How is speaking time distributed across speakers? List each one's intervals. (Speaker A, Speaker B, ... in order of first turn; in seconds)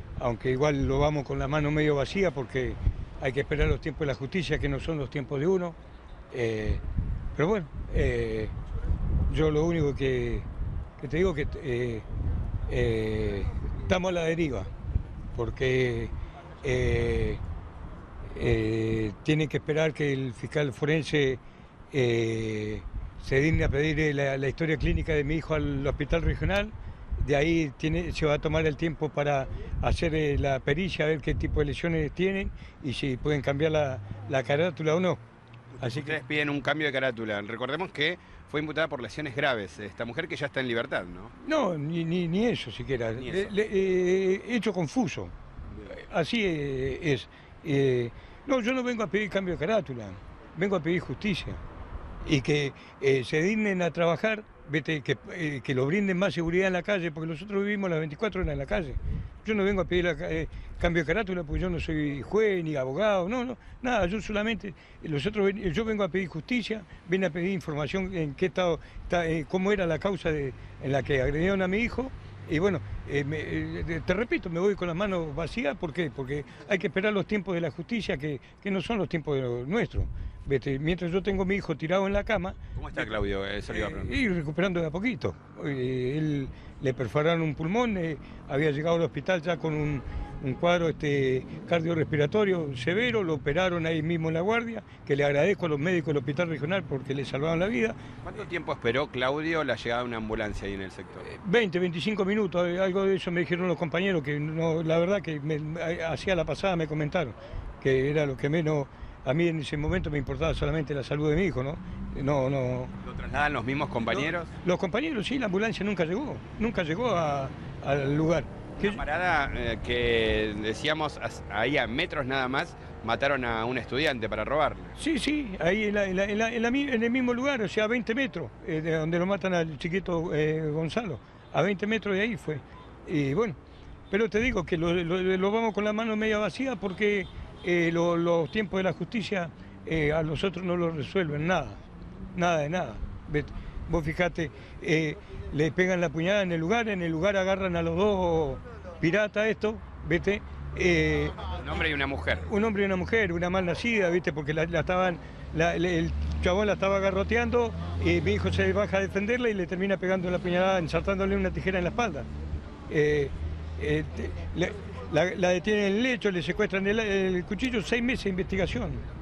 Speaker A: 0.2-5.8, 6.3-6.8, 7.3-8.5, 9.3-10.5, 11.0-12.1, 12.7-14.7, 15.3-17.4, 18.3-21.4, 21.9-35.2, 35.8-36.2, 41.4-45.3, 45.9-51.6, 52.2-83.1, 83.7-98.0, 101.2-112.9, 114.2-119.0, 125.0-133.6, 134.1-141.8, 142.3-151.4, 152.4-162.3, 162.9-169.0
Speaker B: 35.7-41.3, 43.2-43.5, 82.8-84.1, 98.2-101.3, 113.0-114.5, 118.8-125.0, 151.5-152.5